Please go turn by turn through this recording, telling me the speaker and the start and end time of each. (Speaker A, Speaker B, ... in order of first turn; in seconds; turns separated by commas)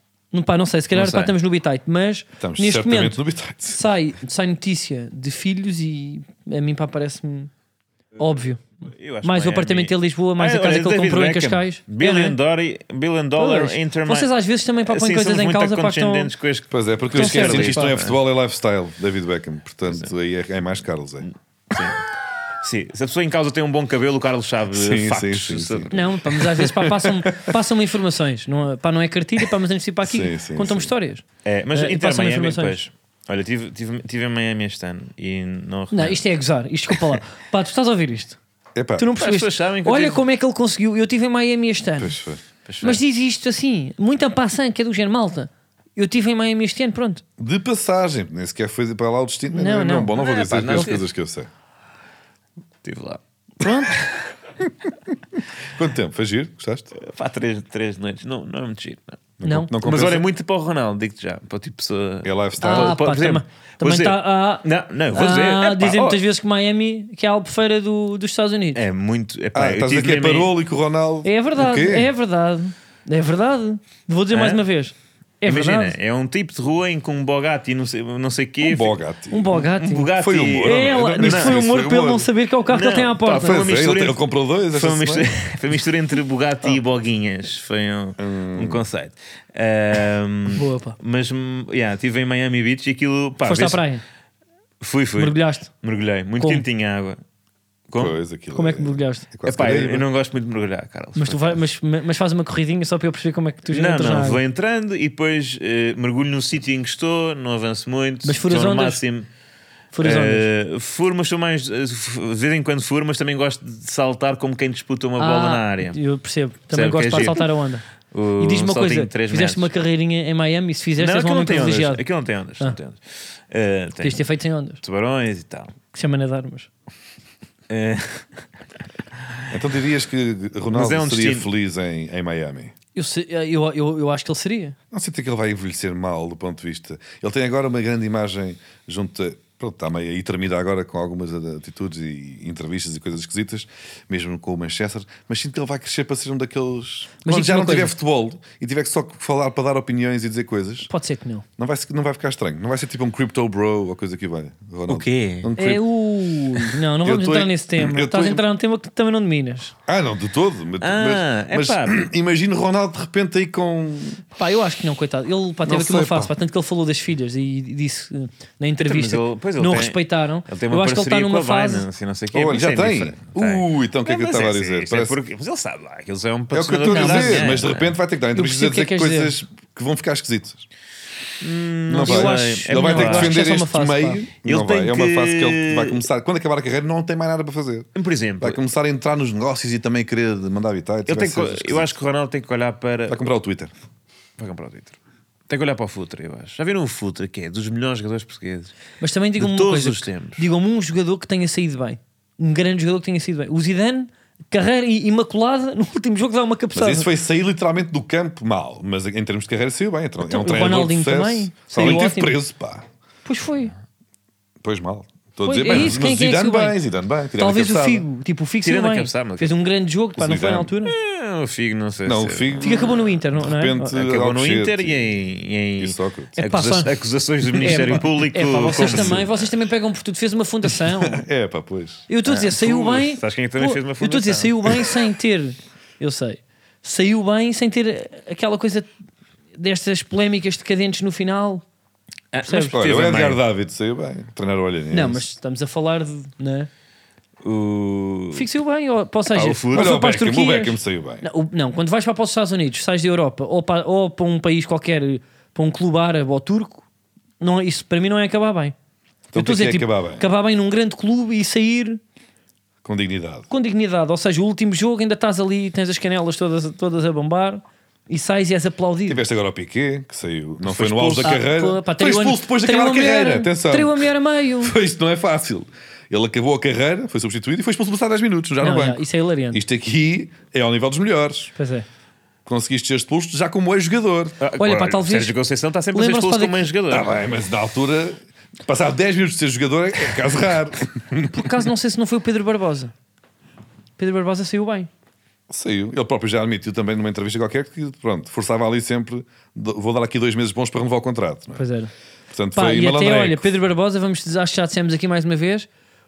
Speaker A: 0.3-3.2, Speaker B: 0.9-1.3, Speaker C: 2.4-3.8, Speaker A: 3.7-7.5, Speaker A: 8.2-8.6, Speaker B: 8.9-14.3, Speaker A: 9.2-12.4, Speaker A: 13.4-16.3, Speaker B: 14.8-18.2, Speaker C: 16.7-21.3, Speaker A: 17.1-17.9, Speaker B: 21.7-22.0, Speaker B: 22.6-26.1, Speaker C: 24.7-27.6, Speaker A: 25.9-32.8, Speaker C: 30.0-30.9, Speaker B: 31.4-36.2, Speaker A: 35.9-38.4, Speaker C: 38.8-39.1, Speaker A: 39.0-42.2, Speaker B: 39.2-40.2, Speaker C: 42.0-42.4, Speaker B: 42.7-43.0, Speaker A: 42.8-47.2, Speaker C: 47.4-51.5, Speaker A: 49.5-50.2, Speaker B: 50.2-51.1, Speaker B: 52.8-53.2, Speaker A: 53.6-54.0, Speaker C: 55.7-56.9, Speaker B: 57.0-66.2, Speaker C: 59.4-60.3, Speaker A: 59.4-59.7, Speaker C: 62.2-63.0, Speaker A: 62.6-68.8, Speaker B: 68.8-70.5, Speaker C: 69.5-72.1, Speaker A: 71.2-76.0, Speaker B: 74.3-74.6, Speaker B: 75.5-79.0, Speaker C: 78.6-82.3, Speaker A: 79.3-80.1, Speaker B: 79.6-81.6, Speaker A: 80.6-83.6, Speaker B: 82.7-93.8, Speaker C: 83.4-85.3, Speaker C: 88.2-88.8, Speaker A: 90.5-91.0, Speaker A: 93.4-94.0, Speaker B: 94.8-97.2, Speaker A: 95.2-95.7, Speaker A: 96.4-96.7, Speaker B: 97.9-98.2, Speaker C: 98.0-100.0, Speaker A: 98.5-99.3, Speaker B: 99.5-101.6, Speaker A: 101.2-104.4, Speaker B: 103.7-109.3, Speaker A: 108.2-109.0, Speaker A: 109.9-110.5, Speaker B: 110.0-116.0, Speaker A: 115.2-117.8, Speaker B: 116.7-117.5, Speaker B: 118.1-119.7, Speaker A: 118.4-122.0, Speaker B: 121.0-124.2, Speaker A: 124.0-124.8, Speaker B: 124.8-125.7, Speaker A: 125.9-126.7, Speaker B: 127.7-128.3, Speaker C: 129.5-132.7, Speaker B: 130.7-131.5, Speaker A: 132.9-134.8, Speaker C: 134.9-150.9, Speaker A: 147.2-147.9, Speaker A: 150.9-151.4, Speaker C: 151.6-155.8, Speaker B: 154.9-155.5, Speaker A: 155.6-159.7, Speaker C: 157.0-158.4, Speaker C: 159.9-164.2, Speaker B: 160.8-162.0, Speaker A: 164.3-171.9, Speaker C: 165.7-166.3, Speaker B: 168.8-178.0, Speaker C: 172.3-175.2, Speaker C: 176.5-180.7, Speaker A: 176.9-177.6, Speaker A: 178.3-179.4, Speaker B: 181.4-183.4, Speaker C: 181.9-187.9, Speaker A: 182.0-184.2, Speaker B: 184.4-186.0, Speaker B: 188.0-188.6, Speaker C: 188.4-191.9, Speaker B: 191.1-193.2, Speaker C: 193.1-193.7, Speaker B: 194.4-195.0, Speaker B: 195.5-198.7, Speaker A: 199.0-207.1, Speaker B: 199.4-200.5, Speaker C: 206.8-212.8, Speaker A: 210.2-212.4, Speaker A: 213.2-213.7, Speaker C: 214.6-218.1, Speaker A: 215.4-216.8, Speaker B: 215.7-216.0, Speaker A: 217.4-220.9, Speaker B: 218.6-219.6, Speaker C: 220.2-220.7, Speaker B: 220.9-223.0, Speaker C: 222.1-222.8, Speaker A: 222.6-224.0, Speaker C: 223.4-225.1, Speaker B: 223.9-229.3, Speaker C: 225.8-226.4, Speaker A: 226.4-226.9, Speaker A: 227.6-231.2, Speaker C: 228.8-229.2, Speaker C: 231.0-232.1, Speaker A: 232.1-238.9, Speaker B: 232.3-234.7, Speaker A: 239.6-241.6, Speaker B: 242.3-243.4, Speaker A: 242.4-242.8, Speaker C: 242.7-245.2, Speaker A: 244.9-246.7, Speaker B: 247.4-248.5, Speaker A: 248.3-256.9, Speaker B: 249.3-250.0, Speaker C: 249.7-251.3, Speaker A: 257.4-258.8, Speaker C: 259.3-260.3, Speaker A: 259.4-262.0, Speaker C: 262.8-263.5, Speaker A: 263.5-269.2, Speaker C: 269.1-274.1, Speaker B: 270.6-271.4, Speaker A: 271.2-274.8, Speaker C: 274.6-281.5, Speaker A: 278.6-279.6, Speaker A: 281.6-281.9, Speaker C: 282.5-284.4, Speaker B: 284.4-287.1, Speaker A: 284.6-285.3, Speaker A: 285.9-286.6, Speaker C: 286.9-291.7, Speaker A: 291.3-292.9, Speaker A: 294.0-294.9, Speaker C: 295.5-301.6, Speaker A: 301.6-301.9, Speaker C: 302.3-303.5, Speaker A: 302.6-305.7